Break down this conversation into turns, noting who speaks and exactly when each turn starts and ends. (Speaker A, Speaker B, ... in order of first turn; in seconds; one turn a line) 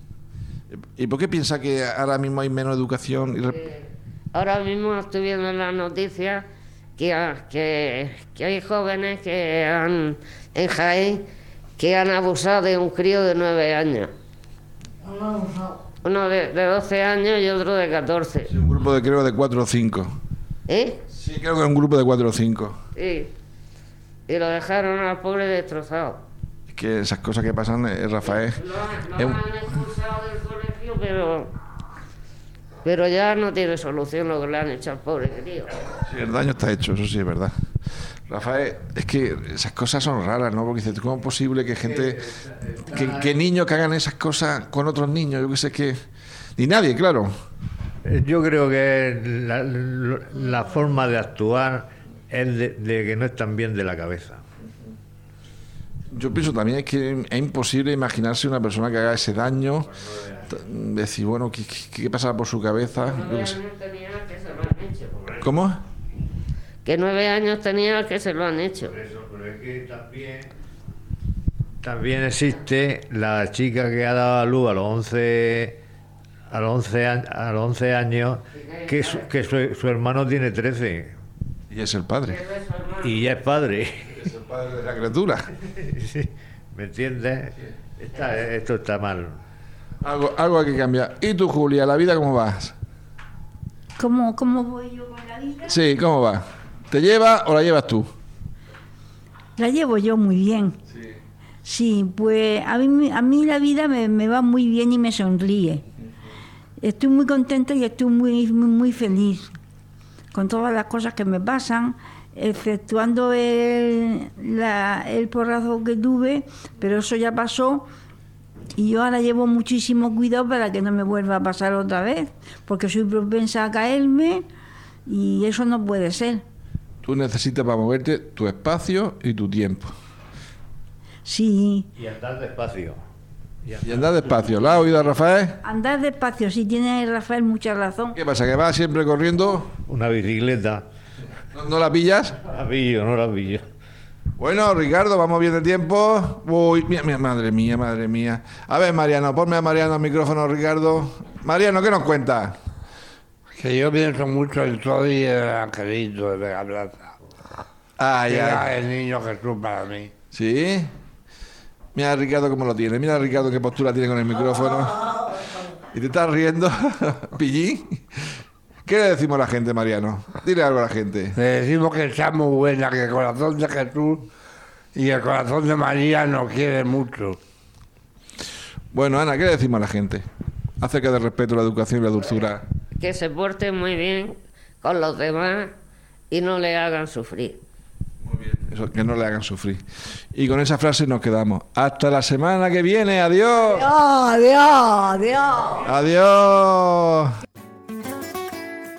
Speaker A: 0.7-3.6
Speaker B: 3.5-14.1
Speaker C: 15.0-15.8
Speaker B: 16.0-18.5
Speaker A: 18.5-20.1
Speaker B: 20.7-21.0
Speaker A: 21.1-22.8
Speaker B: 22.9-23.3
Speaker B: 24.3-26.2
Speaker A: 26.7-28.6
Speaker B: 28.2-31.5
Speaker A: 29.1-29.4
Speaker B: 32.8-35.8
Speaker A: 36.0-37.5
Speaker A: 38.3-42.2
Speaker D: 41.8-43.3
Speaker A: 42.9-46.0
Speaker A: 46.6-47.3
Speaker D: 48.0-54.4
Speaker A: 56.1-59.9
Speaker D: 59.9-60.4
Speaker A: 60.5-63.6
Speaker B: 63.1-65.2
Speaker A: 65.4-65.8
Speaker B: 66.8-68.9
Speaker D: 68.8-70.5
Speaker D: 71.8-75.8
Speaker D: 76.5-81.1
Speaker B: 78.5-79.3
Speaker A: 81.7-82.4
Speaker B: 82.3-83.1
Speaker D: 83.0-84.2
Speaker A: 84.2-85.5
Speaker D: 85.8-89.4
Speaker A: 90.0-92.7
Speaker E: 94.0-95.8
Speaker A: 95.7-98.1
Speaker E: 99.5-100.8
Speaker E: 101.6-105.8
Speaker E: 106.8-109.5
Speaker E: 110.3-117.8
Speaker E: 118.8-124.4
Speaker E: 125.0-126.4
Speaker A: 127.0-129.9
Speaker E: 131.2-131.9
Speaker D: 132.0-133.0
Speaker D: 133.6-133.9
Speaker A: 133.8-135.6
Speaker E: 135.6-138.2
Speaker A: 138.1-139.7
Speaker D: 139.8-140.8
Speaker A: 141.5-142.4
Speaker D: 142.4-143.7
Speaker A: 144.4-152.6
Speaker F: 153.6-157.1
Speaker A: 158.0-158.7
Speaker F: 158.3-160.1
Speaker A: 160.3-160.9
Speaker A: 161.9-165.3
Speaker A: 165.9-168.0
Speaker A: 168.8-171.3
Speaker F: 171.3-174.2
Speaker F: 174.9-177.4
Speaker A: 178.9-180.2
Speaker A: 180.8-182.6
Speaker B: 182.9-185.7
Speaker B: 186.3-187.6
Speaker A: 188.2-189.8
Speaker A: 190.3-193.9
Speaker C: 193.7-195.8
Speaker A: 195.8-197.3